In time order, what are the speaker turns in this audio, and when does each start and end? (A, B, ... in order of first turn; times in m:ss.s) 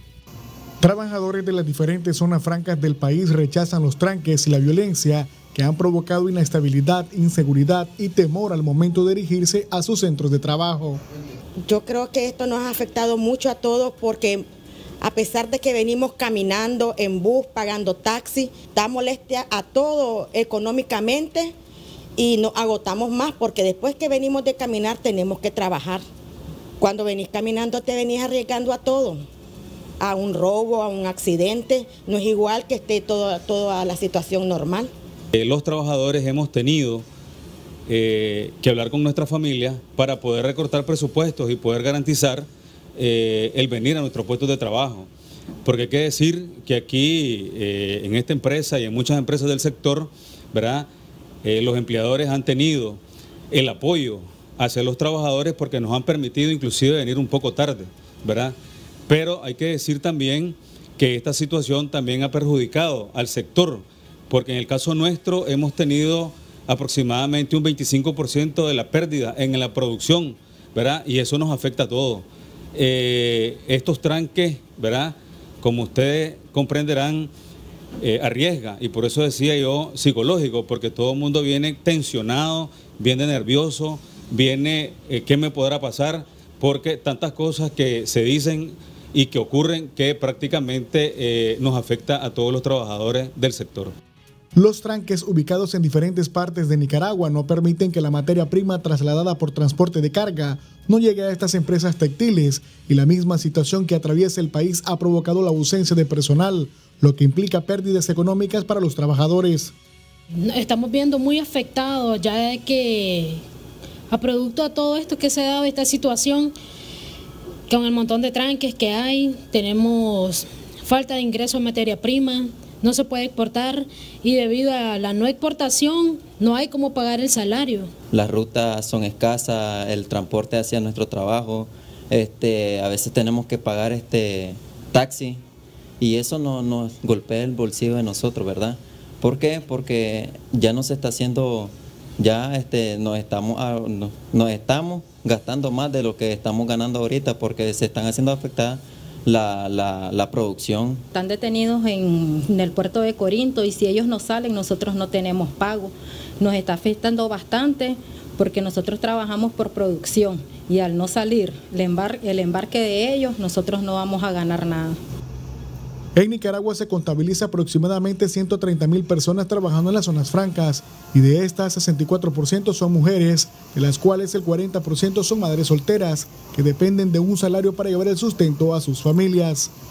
0:00.8-0:11.0 A
0:11.6-0:14.4 B
0:15.0-0:21.5 B
0:22.2-0:26.0 B
0:26.8-0:29.1 B
0:30.0-0:34.9 B
0:35.3-0:37.0 C
0:37.9-0:45.1 C
0:45.6-0:50.9 C
0:51.4-0:53.0 C
0:53.5-0:58.5 C
0:59.1-1:17.3 C
1:18.0-1:33.9 C
1:34.6-1:49.7 A
1:50.4-1:53.4 D
1:54.1-1:56.5 D
1:57.7-2:07.9 D
2:08.1-2:15.4 E
2:16.0-2:31.0 E
2:31.1-2:45.0 F
2:46.2-2:59.7 A